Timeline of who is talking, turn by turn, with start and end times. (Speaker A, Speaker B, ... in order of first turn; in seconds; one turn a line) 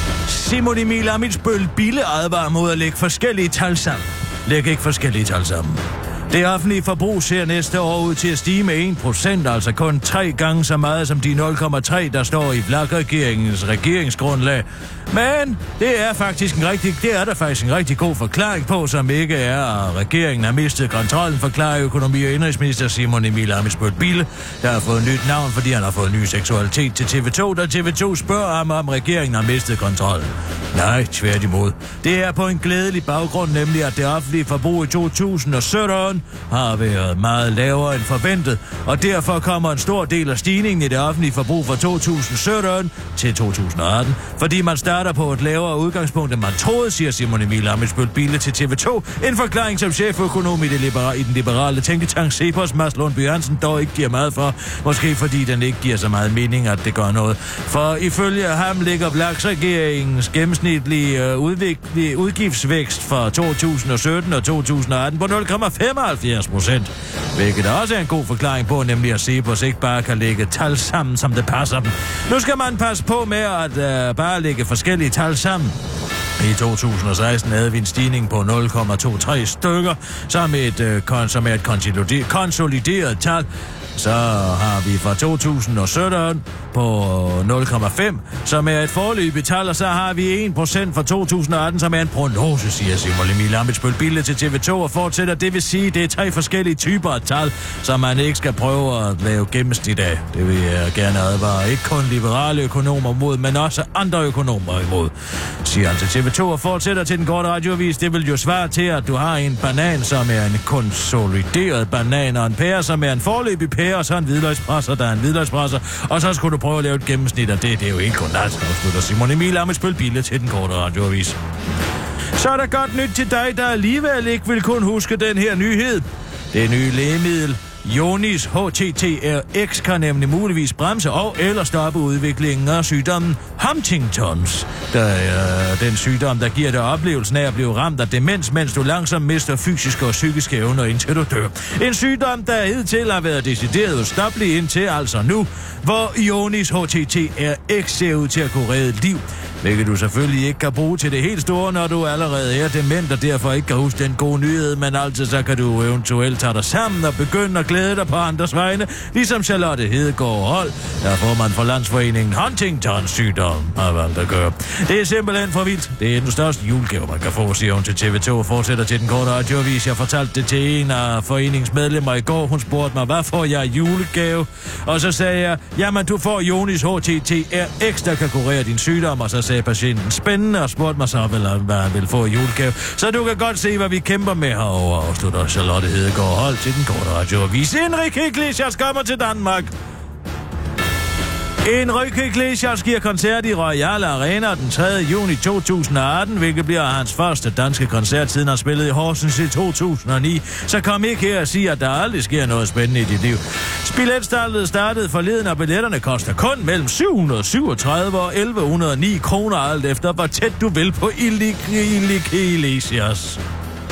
Speaker A: 0.3-75.8
Speaker A: 76.4-121.4
Speaker A: 122.4-189.7
Speaker A: 191.6-213.4